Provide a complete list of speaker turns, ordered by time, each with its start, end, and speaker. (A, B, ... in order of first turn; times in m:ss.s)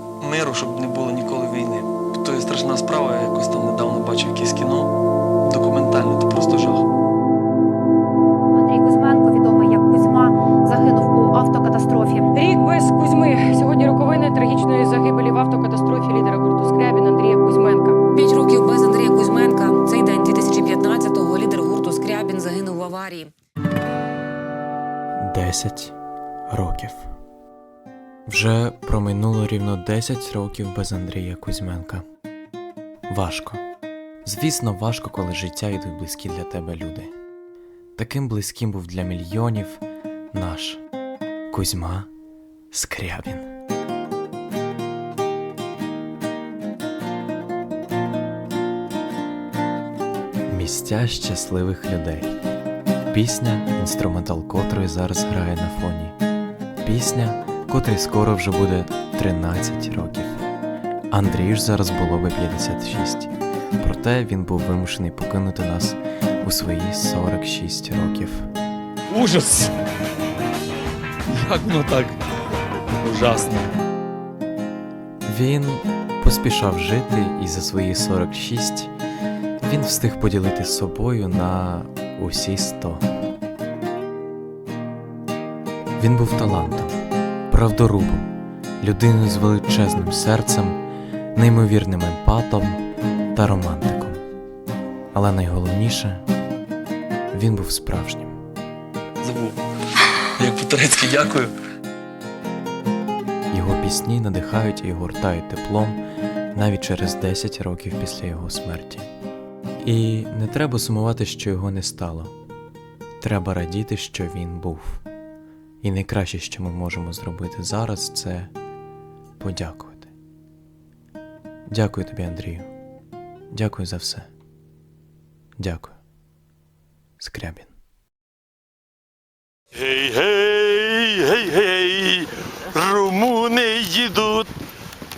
0:00.2-0:06.8 A
0:08.5-0:12.3 B
0:12.3-0:18.0 C
0:18.1-0:23.3 D
0:25.2-0:25.9 E
0:26.5-0:27.1 E
0:28.3-0:32.0 E
0:33.1-0:33.6 E
0:34.2-0:37.1 E
0:38.0-0:40.8 E
0:41.5-0:42.1 E
0:42.7-0:43.5 E
0:50.5-0:52.4 E
0:53.1-0:56.2 E
0:56.8-1:00.4 E
1:01.1-1:08.5 E
1:09.1-1:09.7 F
1:11.3-1:12.2 F
1:12.9-1:13.7 F
1:15.2-1:18.9 E
1:19.6-1:23.1 E
1:26.0-1:30.8 E
1:31.3-1:32.8 E
1:33.3-1:34.2 E
1:35.1-1:36.2 E
1:37.3-1:38.4 E
1:39.2-1:39.6 A
1:40.4-1:41.5 A
1:43.5-1:46.0 E
1:46.5-1:49.1 E
1:49.8-1:52.3 E
1:53.2-1:55.0 E
1:55.8-1:58.5 E
1:59.4-2:00.1 E
2:01.7-2:02.7 E
2:03.5-2:04.3 E
2:05.6-2:06.0 E
2:07.2-2:07.7 E
2:09.7-2:14.5 G